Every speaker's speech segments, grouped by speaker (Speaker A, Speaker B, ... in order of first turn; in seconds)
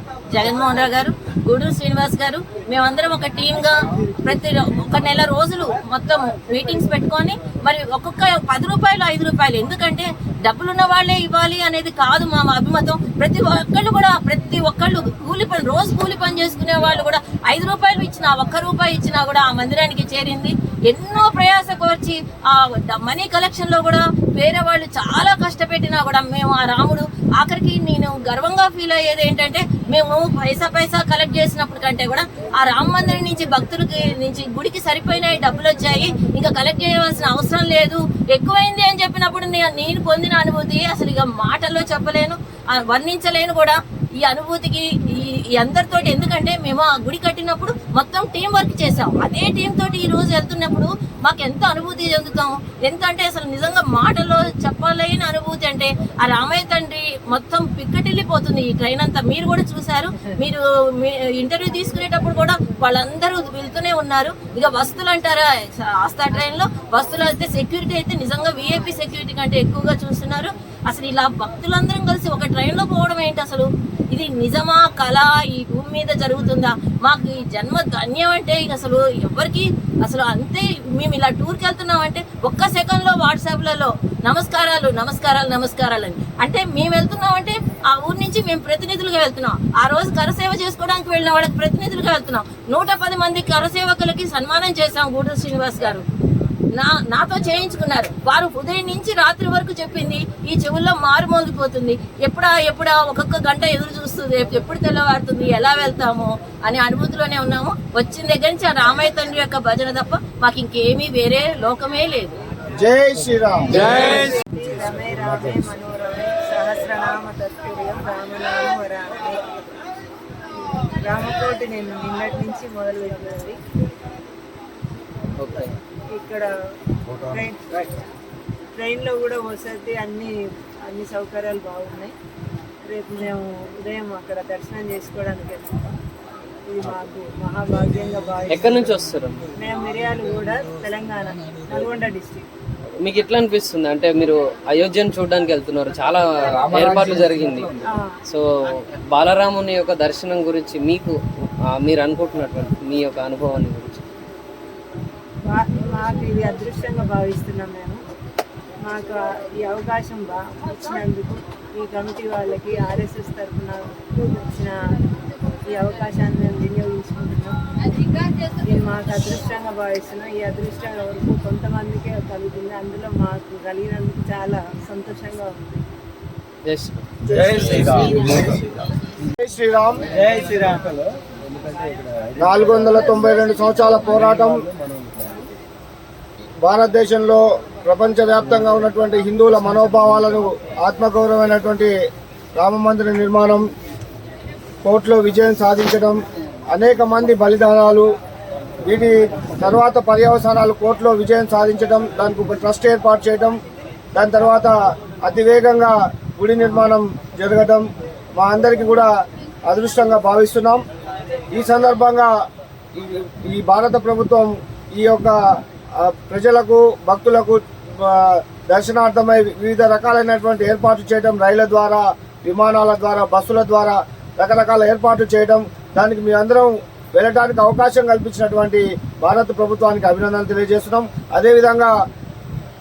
Speaker A: 0.3-96.0, 96.7-112.4
Speaker B: 112.8-114.0, 179.3-180.1, 182.4-184.7, 186.6-191.9, 192.6-193.7, 194.8-196.2, 196.7-198.1, 198.9-203.6, 204.2-209.1, 209.7-210.8, 211.5-212.3, 212.9-215.4, 216.0-231.9
Speaker C: 113.7-119.5, 120.7-123.6, 126.1-126.5, 127.2-128.0, 128.8-130.3, 130.9-132.1, 132.8-135.9, 136.7-138.9, 139.6-142.5, 147.9-148.2, 155.5-158.0, 158.8-165.0, 165.7-175.8
Speaker D: 125.4-125.7, 138.5-139.5, 143.0-154.0, 176.7-178.5